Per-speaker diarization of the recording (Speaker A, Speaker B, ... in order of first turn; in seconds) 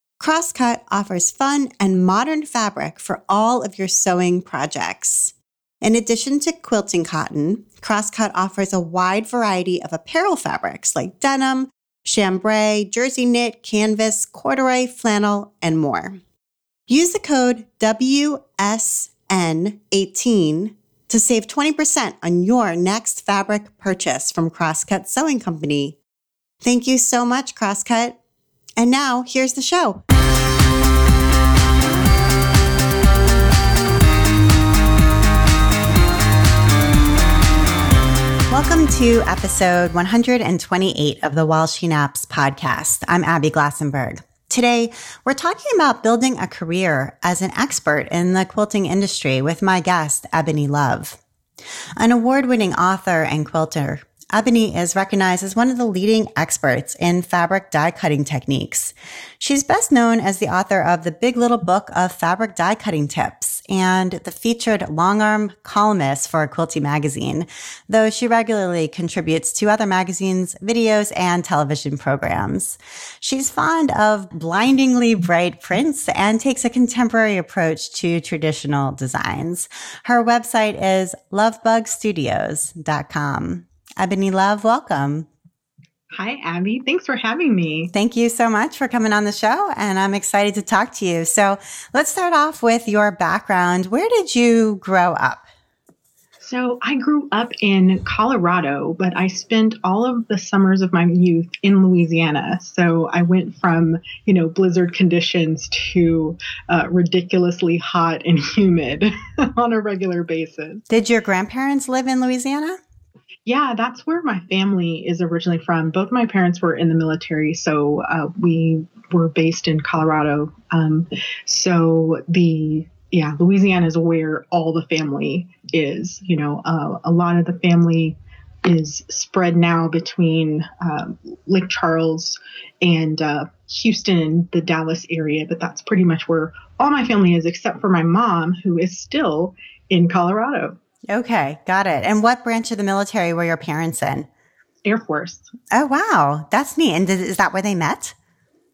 Speaker A: 0.2-16.2, 16.9-26.0, 26.6-28.2, 28.8-30.0, 38.5-51.2, 52.0-85.3, 87.9-95.5, 110.9-112.8, 141.1-144.3, 145.7-148.2
Speaker B: 86.1-87.9, 96.4-110.8, 113.5-140.8, 144.8-145.5